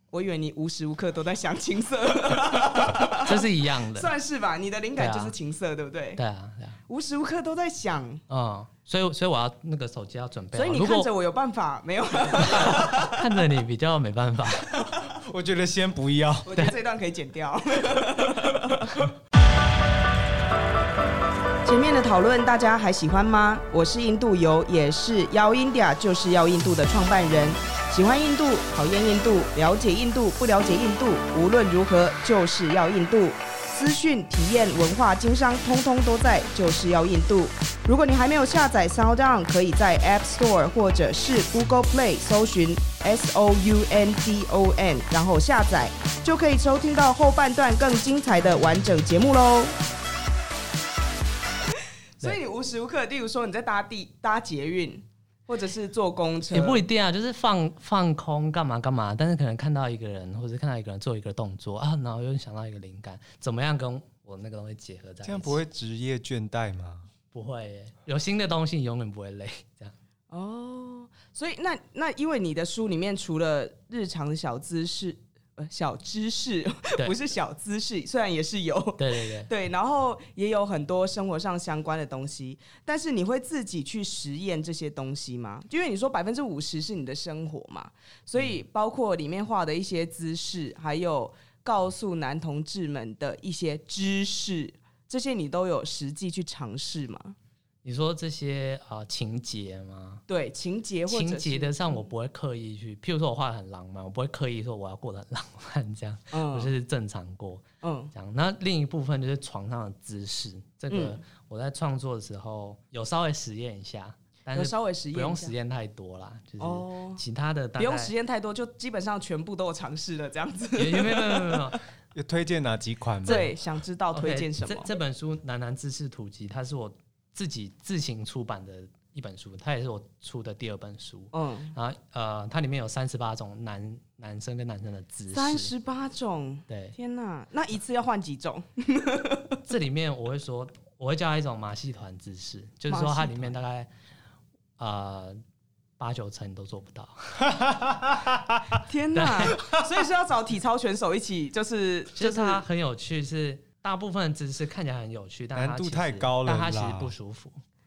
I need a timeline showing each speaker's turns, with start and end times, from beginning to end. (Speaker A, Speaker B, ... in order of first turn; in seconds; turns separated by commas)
Speaker A: 0.1-6.2, Speaker B: 2.9-4.1, Speaker B: 5.0-5.3, Speaker B: 6.2-6.8, Speaker A: 6.9-8.2, Speaker B: 8.3-11.1, Speaker A: 10.5-13.2, Speaker B: 12.5-14.8, Speaker C: 15.1-16.6, Speaker A: 16.4-18.9, Speaker A: 21.6-49.8, Speaker A: 52.2-56.9, Speaker B: 56.5-65.6, Speaker C: 65.2-67.1, Speaker B: 67.3-69.9, Speaker A: 70.3-97.4, Speaker B: 79.0-79.5, Speaker B: 97.8-100.2, Speaker A: 100.3-102.0, Speaker B: 101.1-118.1, Speaker A: 106.3-106.7, Speaker A: 107.8-108.1, Speaker A: 110.9-111.2, Speaker A: 114.5-115.5, Speaker A: 116.6-117.2, Speaker A: 117.8-121.6, Speaker B: 120.8-121.8, Speaker C: 122.2-123.5, Speaker B: 123.2-123.5, Speaker A: 123.2-124.9, Speaker B: 124.1-135.7, Speaker A: 131.3-131.7, Speaker A: 135.3-139.6, Speaker B: 136.7-137.0, Speaker B: 139.7-143.9, Speaker A: 142.9-143.6, Speaker B: 144.8-145.4, Speaker B: 146.0-147.5, Speaker C: 147.6-148.5, Speaker A: 148.8-152.6, Speaker B: 149.1-149.7, Speaker B: 152.2-157.6, Speaker C: 155.6-157.1